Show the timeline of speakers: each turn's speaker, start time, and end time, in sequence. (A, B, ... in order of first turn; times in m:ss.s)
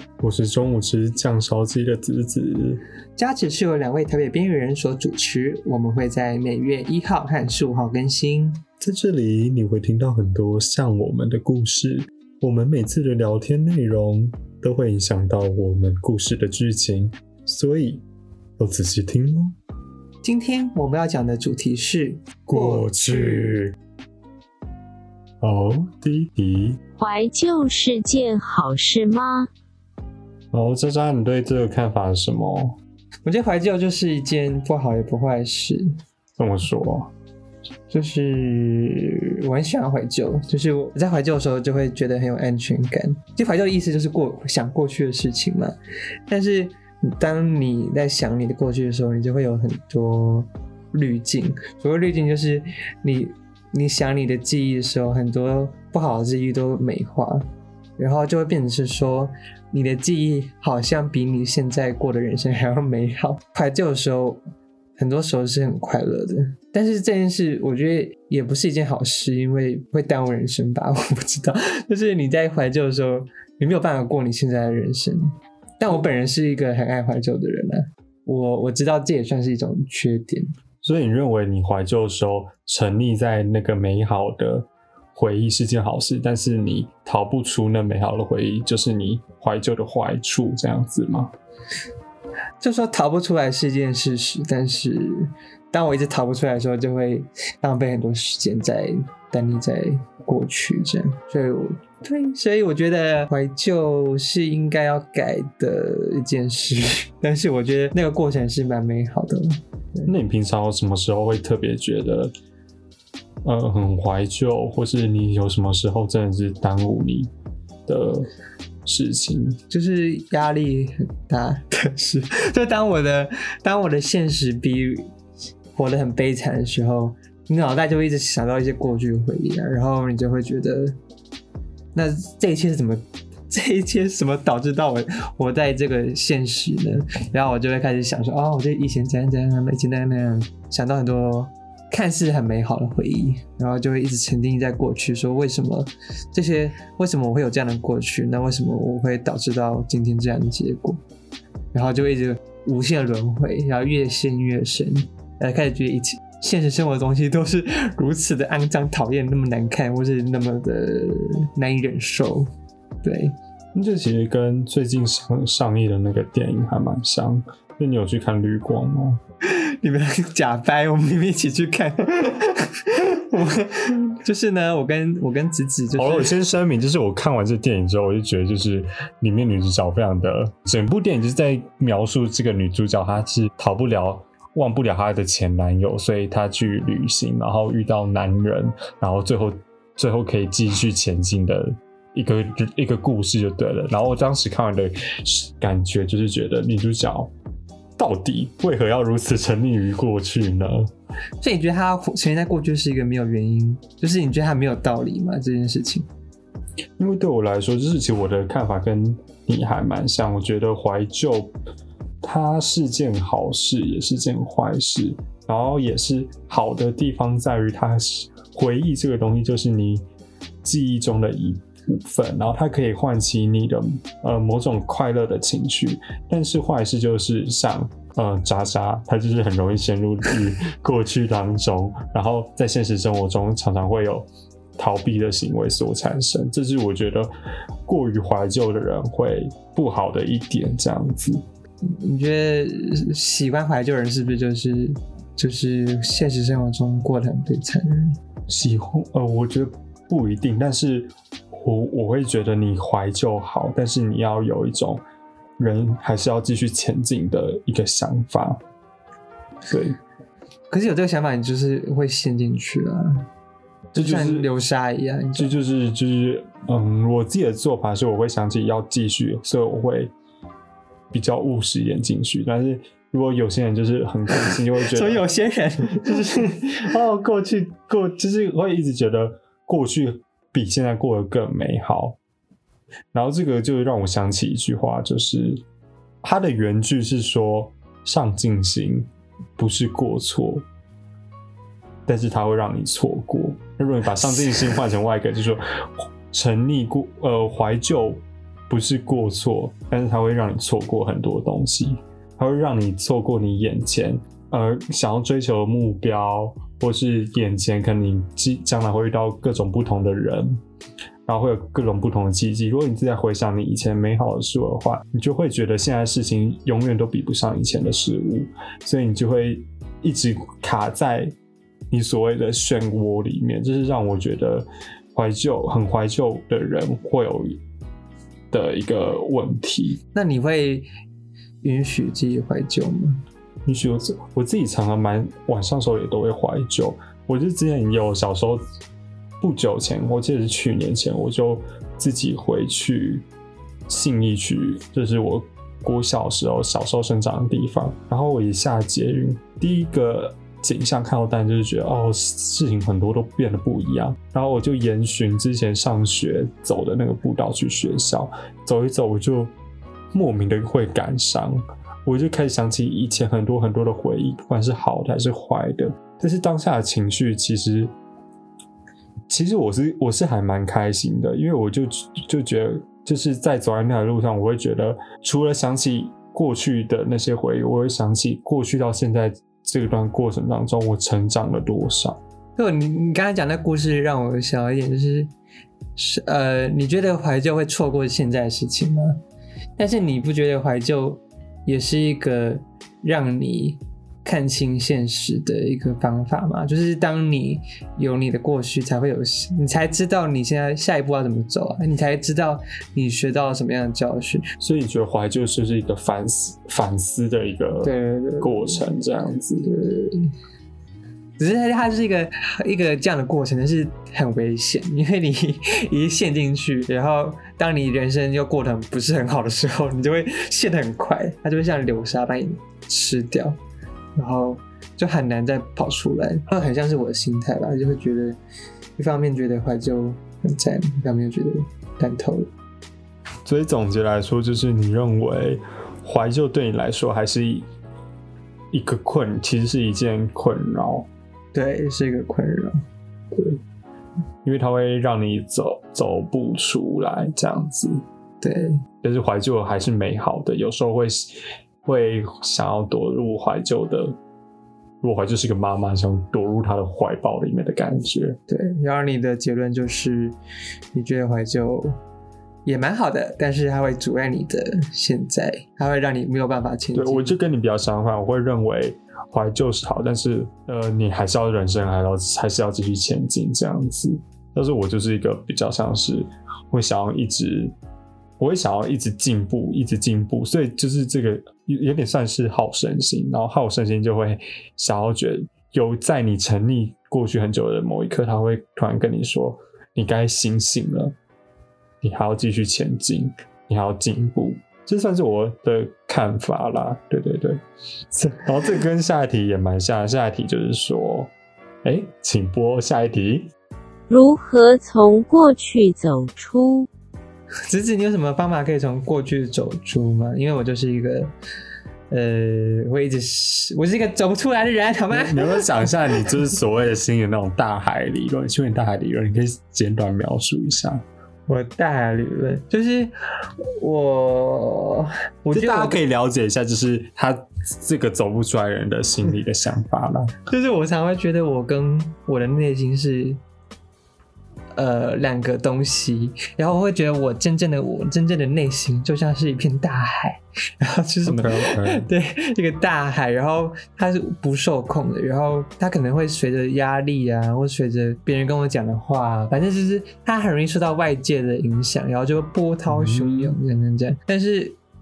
0:00.2-0:02.8 A
0:03.2-0:08.6 B
0:08.8-0:18.0 A
0:18.6-0:19.6 A
0:20.2-0:23.6 B
0:22.5-0:23.8 A
0:25.4-0:26.8 A
0:27.0-0:29.5 C
0:30.5-0:32.8 A
0:33.2-0:36.0 B
0:36.4-0:37.1 A
0:37.9-0:45.8 B
0:46.3-0:57.5 B
0:58.0-1:04.4 B
1:05.0-1:20.5 B
1:20.8-1:31.3 A
1:32.6-1:50.2 B
1:50.1-1:52.3 A
1:53.4-1:57.3 A
1:57.9-1:58.3 A
1:58.8-1:59.6 A
1:59.7-2:05.1 B
2:05.7-2:11.0 B
2:11.9-2:31.0 B
2:31.7-2:42.5 B
2:43.0-2:43.4 B
2:43.7-2:49.2 A
2:49.4-2:56.4 B
2:56.0-3:17.3 A
3:18.0-3:20.9 A
3:21.4-3:26.1 B
3:27.0-3:31.5 A
3:32.2-3:40.0 A
3:40.6-3:57.3 A
3:57.9-4:01.4 A
4:01.8-4:08.2 B
4:08.5-4:15.0 A
4:15.6-4:18.6 A
4:19.7-4:20.0 A
4:20.7-4:23.3 B
4:23.9-4:24.5 A
4:23.9-4:25.5 B
4:25.4-4:30.1 A
4:31.1-4:35.2 A
4:34.8-4:36.8 B
4:35.9-4:42.2 A
4:43.1-4:45.6 A
4:46.2-4:50.7 A
4:52.1-5:10.6 A
5:11.3-5:21.4 A
5:21.9-5:27.6 A
5:28.5-5:30.0 A
5:30.1-5:30.9 B
5:31.6-5:33.2 B
5:33.7-5:38.6 A
5:39.4-5:43.3 A
5:43.9-5:59.6 A
6:00.1-6:07.9 A
6:09.3-6:22.2 A
6:22.6-6:25.3 B
6:26.0-6:29.2 B
6:29.8-6:44.5 B
6:44.6-6:49.7 A
6:47.8-6:48.8 B
6:49.6-6:50.3 B
6:51.4-7:03.6 B
7:04.2-7:08.4 B
7:09.0-7:12.5 B
7:13.4-7:17.7 A
7:18.7-7:21.1 A
7:21.5-7:22.8 B
7:23.3-7:23.6 A
7:24.4-7:28.0 A
7:28.4-7:28.8 B
7:29.0-7:34.2 A
7:35.0-7:38.4 A
7:38.5-7:40.4 B
7:40.9-7:42.0 B
7:42.7-7:47.4 B
7:46.9-7:57.7 A
7:58.4-8:11.2 A
8:12.0-8:17.6 A
8:18.2-8:21.3 A
8:21.8-8:23.5 A
8:24.1-8:26.9 C
8:27.7-8:31.3 B
8:32.1-8:36.3 B
8:35.1-8:41.0 A
8:41.5-8:46.0 B
8:45.5-8:50.4 A
8:50.5-8:53.4 B
8:54.8-9:14.8 B
9:01.3-9:02.0 A
9:12.9-9:13.6 A